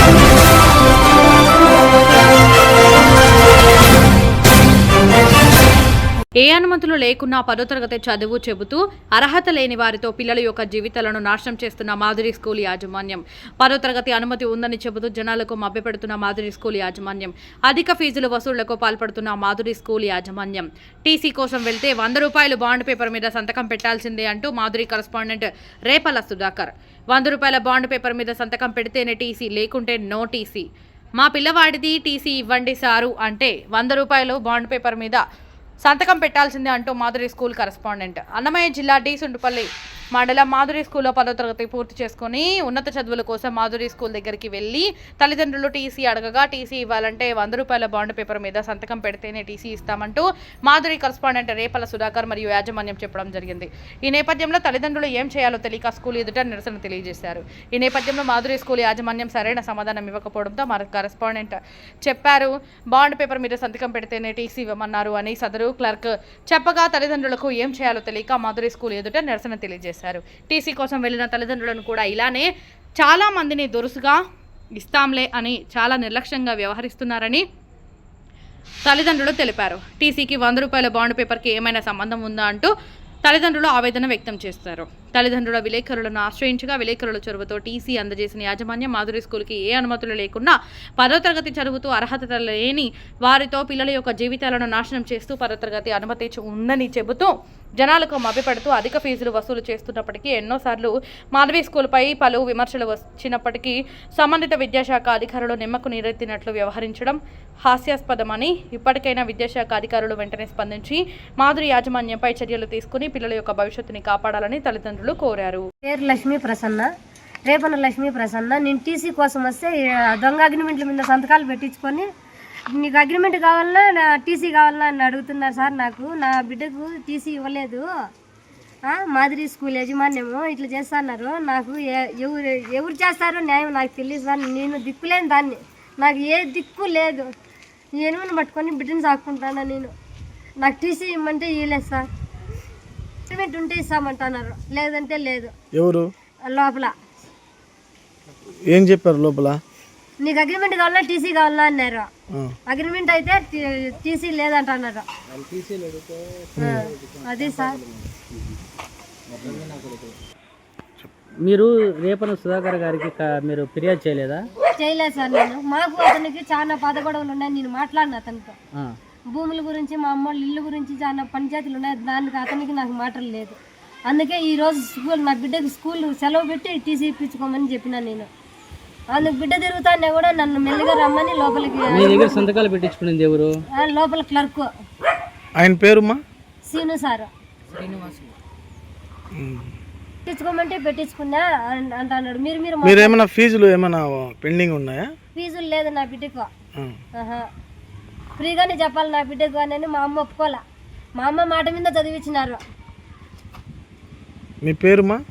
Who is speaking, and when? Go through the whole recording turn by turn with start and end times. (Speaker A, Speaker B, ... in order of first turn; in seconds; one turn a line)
Speaker A: 6.4-30.7
Speaker A: 31.2-35.2
Speaker A: 35.8-74.2
Speaker A: 74.8-77.4
Speaker A: 78.8-82.7
Speaker A: 83.2-115.7
Speaker B: 115.8-116.9
Speaker B: 117.5-122.0
Speaker B: 122.7-127.9
Speaker B: 128.9-137.2
Speaker B: 138.0-139.9
Speaker B: 140.6-142.1
Speaker B: 143.3-145.5
Speaker C: 145.7-146.1
Speaker B: 146.5-146.9
Speaker C: 148.6-149.6
Speaker B: 150.2-152.1
Speaker B: 152.7-155.1
Speaker D: 155.3-158.4
Speaker B: 156.6-157.8
Speaker C: 156.6-156.8
Speaker D: 159.3-160.2
Speaker D: 161.4-164.5
Speaker B: 164.8-168.6
Speaker B: 169.3-173.6
Speaker B: 174.1-178.3
Speaker B: 179.1-182.4
Speaker D: 181.9-183.6
Speaker B: 183.7-184.7
Speaker C: 185.6-186.2
Speaker B: 186.7-187.3
Speaker D: 187.7-188.2
Speaker C: 189.3-189.7
Speaker B: 190.3-193.2
Speaker C: 192.8-195.1
Speaker B: 195.3-196.5
Speaker B: 197.2-197.5
Speaker B: 198.4-200.6
Speaker B: 201.2-202.6
Speaker C: 204.6-205.2